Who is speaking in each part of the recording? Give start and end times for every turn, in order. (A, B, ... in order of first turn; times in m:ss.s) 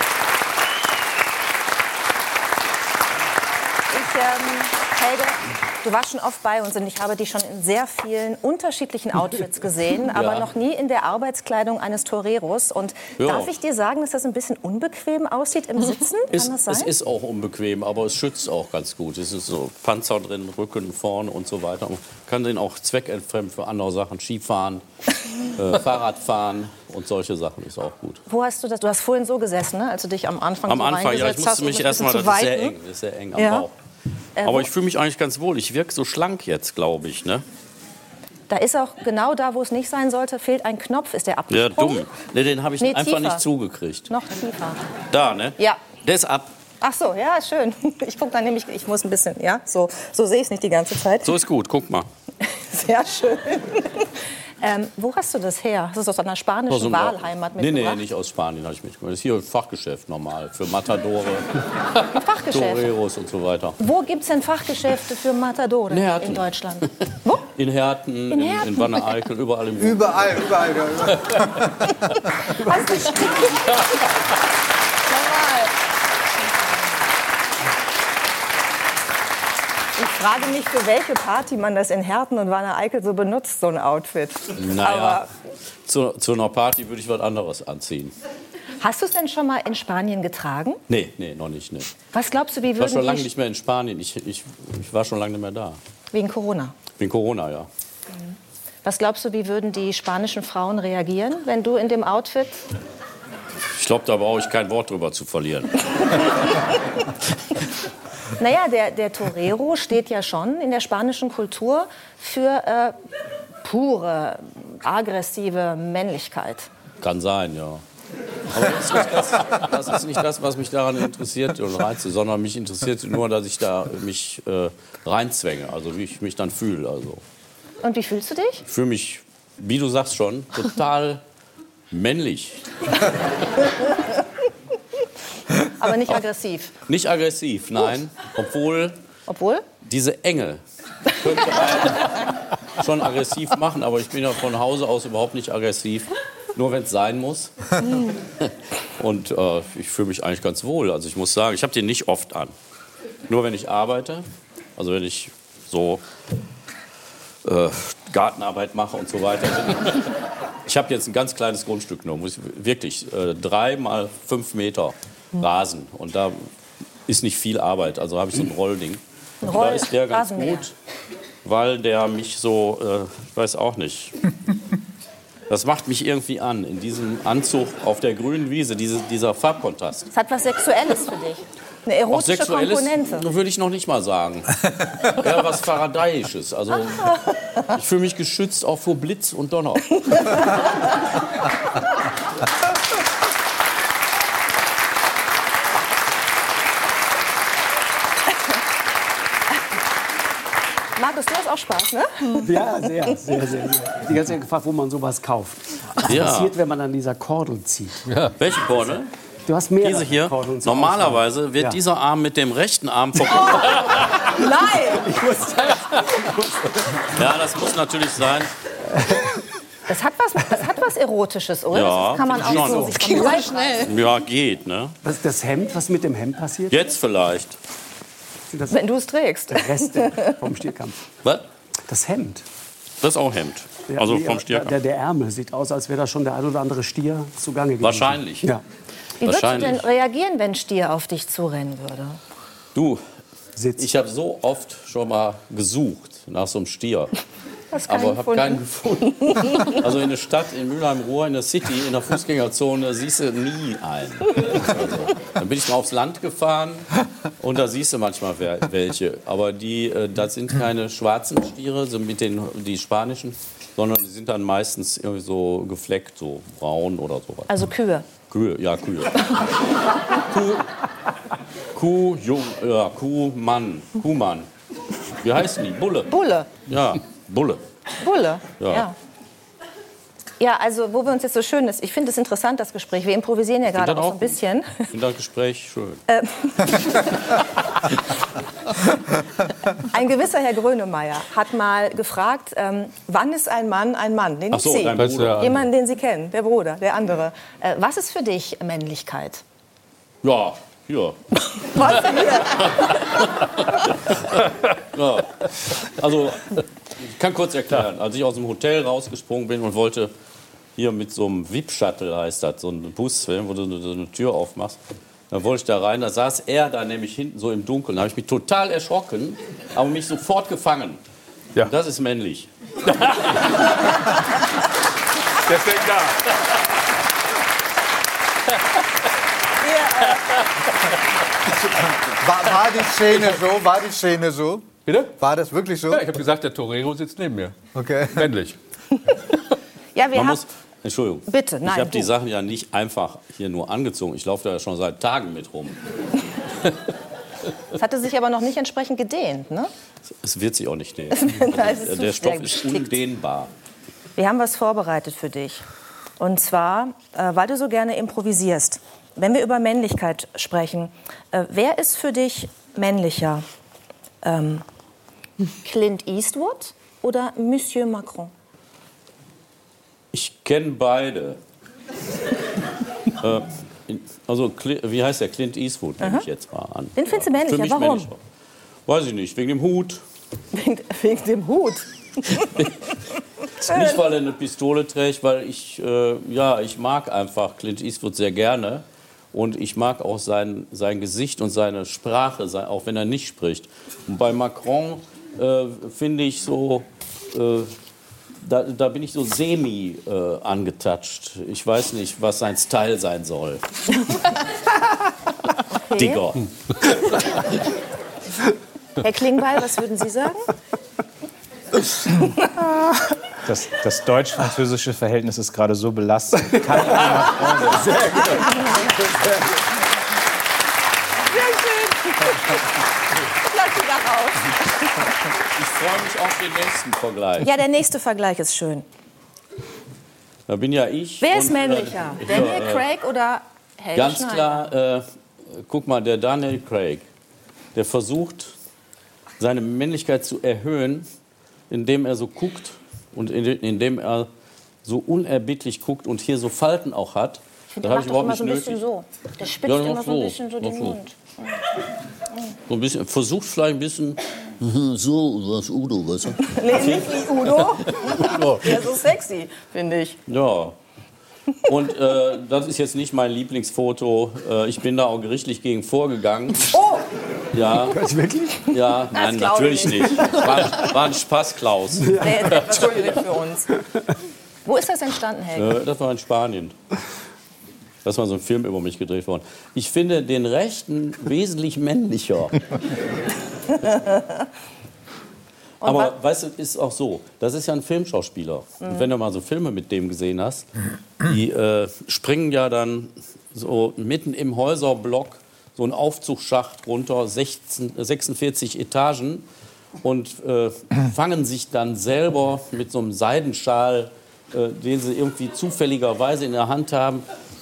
0:03.9-0:16.9 A
0:10.1-0:10.5 B
0:13.2-0:13.5 B
0:16.3-0:24.8 B
0:25.4-0:28.2 B
0:28.3-0:32.8 A
0:30.7-0:33.7 B
0:33.4-0:33.7 A
0:34.4-0:34.7 A
0:34.4-0:37.4 B
0:38.5-0:42.1 A
0:41.5-0:44.1 B
0:42.8-0:43.4 A
0:44.1-0:44.8 A
0:45.1-0:46.5 B
0:45.6-0:45.8 A
0:46.8-0:51.4 A
0:51.2-0:52.1 B
0:52.4-0:58.1 A
0:56.7-1:03.8 B
1:02.0-1:02.9 A
1:03.8-1:07.5 A
1:05.9-1:10.4 B
1:08.3-1:09.0 A
1:09.8-1:11.7 C
1:12.1-1:14.0 A
1:12.8-1:13.1 D
1:15.0-1:15.7 A
1:20.0-1:25.3 A
1:24.6-1:25.2 B
1:25.9-1:28.2 B
1:28.8-1:30.8 A
1:30.9-1:31.9 B
1:32.1-1:33.3 A
1:32.8-1:35.8 B
1:36.1-1:36.7 A
1:37.0-1:37.7 B
1:38.8-1:42.6 A
1:43.7-1:46.4 B
1:48.4-1:52.9 A
1:53.6-1:56.7 A
1:57.0-1:57.8 B
1:58.5-2:07.2 B
2:07.8-2:08.6 A
2:08.7-2:11.2 B
2:11.9-2:13.0 B
2:15.5-2:16.8 A
2:16.9-2:19.0 B
2:19.3-2:19.7 A
2:19.8-2:32.5 B
2:33.3-2:36.0 B
2:37.4-2:46.5 B
2:47.1-2:50.7 B
2:49.4-2:50.7 A
2:51.4-2:54.2 B
2:55.5-3:00.1 B
3:00.1-3:03.3 A
3:02.1-3:10.4 B
3:10.1-3:10.5 A
3:21.0-3:22.5 A
3:22.4-3:28.0 D
3:26.0-3:26.5 B
3:28.1-3:28.4 E
3:28.4-3:29.1 B
3:29.5-3:31.8 D
3:29.8-3:33.9 B
3:33.6-3:35.2 A
3:34.9-3:37.2 D
3:37.1-3:38.5 B
3:38.9-3:39.4 D
3:39.9-3:44.0 A
3:41.7-3:45.0 B
3:42.7-3:43.5 D
3:45.0-3:46.9 D
3:46.7-3:47.6 B
3:48.5-3:48.8 D
3:48.7-3:50.4 A
3:49.5-3:51.0 D
3:51.8-3:52.5 D
3:53.0-3:54.8 B
3:53.9-3:58.6 D
3:57.8-3:58.5 B
3:59.2-4:02.2 A
3:59.2-3:59.8 B
4:02.8-4:03.0 B
4:03.6-4:03.8 D
4:03.7-4:07.2 B
4:07.7-4:09.9 A
4:07.9-4:16.9 B
4:17.4-4:27.5 B
4:27.5-4:28.1 A
4:28.3-4:29.4 B
4:30.1-4:30.7 B
4:31.7-4:34.5 B
4:35.2-4:36.1 B
4:36.1-4:36.5 A
4:36.7-4:37.6 B
4:38.0-4:39.0 A
4:38.6-4:38.9 B
4:40.4-4:44.9 A
4:43.7-4:46.0 B
4:46.1-4:48.0 A
4:49.7-4:59.4 A
4:54.5-4:55.6 B
4:55.0-4:55.6 E
5:00.2-5:04.3 B
5:01.6-5:03.3 A
5:04.9-5:10.1 B
5:10.8-5:14.8 B
5:15.3-5:21.0 B
5:21.6-5:22.5 B
5:23.0-5:24.0 E
5:23.0-5:23.4 B
5:25.4-5:26.5 E
5:29.6-5:30.4 A
5:31.6-5:34.7 C
5:34.8-5:35.2 E
5:35.2-5:36.1 C
5:35.8-5:37.6 E
5:37.8-5:38.3 C
5:38.1-5:38.6 E
5:39.1-5:39.4 A
5:39.9-5:40.4 A
5:40.1-5:45.8 B
5:41.3-5:42.1 A
5:47.7-5:49.7 A
5:50.1-5:53.5 B
5:51.1-5:53.0 A
5:54.2-5:55.6 A
5:56.2-6:03.4 A
6:04.2-6:04.6 A
6:05.6-6:08.3 A
6:10.1-6:11.4 B
6:13.2-6:18.2 B
6:16.0-6:16.3 A
6:17.0-6:18.1 A
6:18.9-6:20.0 B
6:20.5-6:22.8 A
6:23.6-6:37.7 B
6:38.4-6:43.8 B
6:45.7-6:46.3 A
6:46.0-6:46.4 B
6:49.0-6:50.5 A
6:53.4-6:58.1 F
6:58.4-6:58.7 A
7:01.2-7:02.6 A
7:03.2-7:05.1 A
7:05.6-7:07.5 B
7:07.4-7:08.8 A
7:10.5-7:12.8 B
7:11.2-7:14.7 A
7:14.0-7:17.0 B
7:17.8-7:18.5 B
7:19.4-7:21.1 B
7:21.7-7:24.3 B
7:24.8-7:28.8 B
7:27.7-7:31.6 A
7:29.7-7:31.0 B
7:32.7-7:37.2 B
7:36.4-7:40.2 A
7:38.2-7:38.7 E
7:40.3-7:40.8 B
7:41.6-7:46.8 B
7:46.7-7:47.1 A
7:47.5-7:48.1 B
7:47.9-7:48.8 D
7:48.7-7:52.7 B
7:49.1-7:50.7 A
7:52.1-7:53.8 A
7:54.6-7:55.8 A
7:55.6-7:56.8 B
7:58.0-8:02.6 B
8:05.8-8:06.1 A
8:05.8-8:10.7 B
8:11.2-8:19.5 B
8:20.0-8:27.3 B